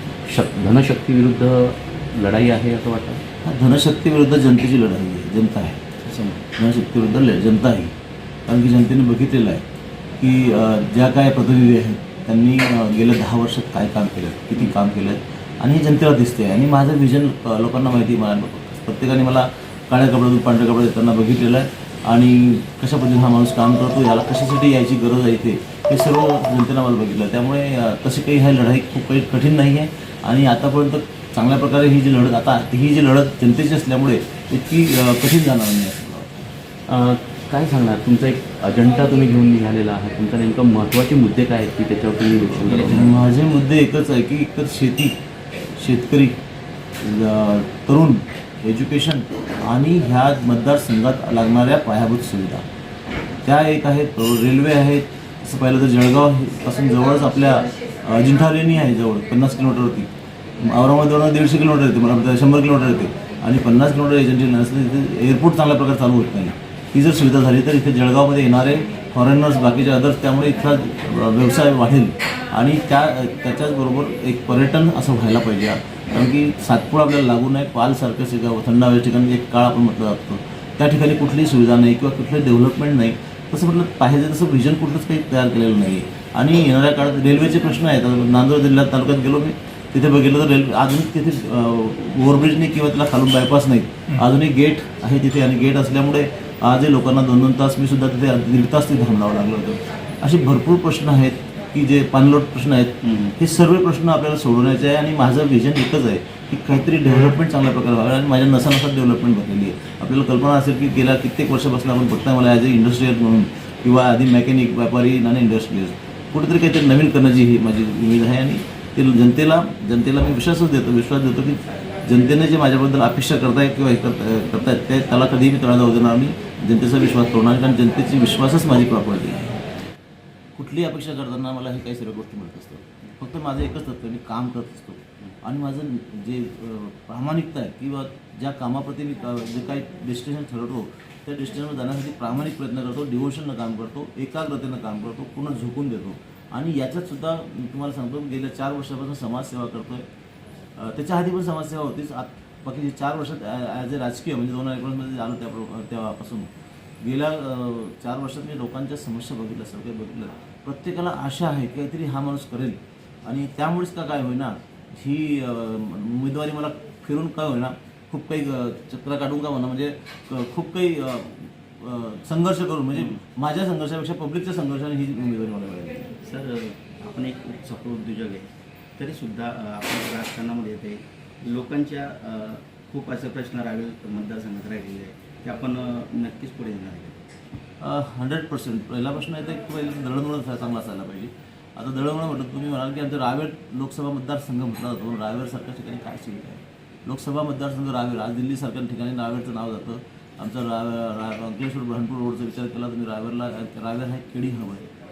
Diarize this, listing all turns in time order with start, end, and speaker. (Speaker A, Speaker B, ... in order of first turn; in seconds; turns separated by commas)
Speaker A: 0.3-3.2, Speaker B: 3.4-5.8, Speaker C: 6.0-6.4, Speaker B: 6.5-7.9, Speaker B: 8.5-9.7, Speaker B: 10.2-36.5, Speaker A: 36.9-43.2, Speaker B: 42.6-45.1, Speaker B: 45.8-46.4, Speaker B: 47.0-52.6, Speaker B: 53.4-129.6, Speaker C: 103.0-103.3, Speaker B: 130.6-150.1, Speaker B: 150.8-156.5, Speaker B: 157.0-176.2, Speaker C: 176.2-187.3, Speaker B: 187.8-204.9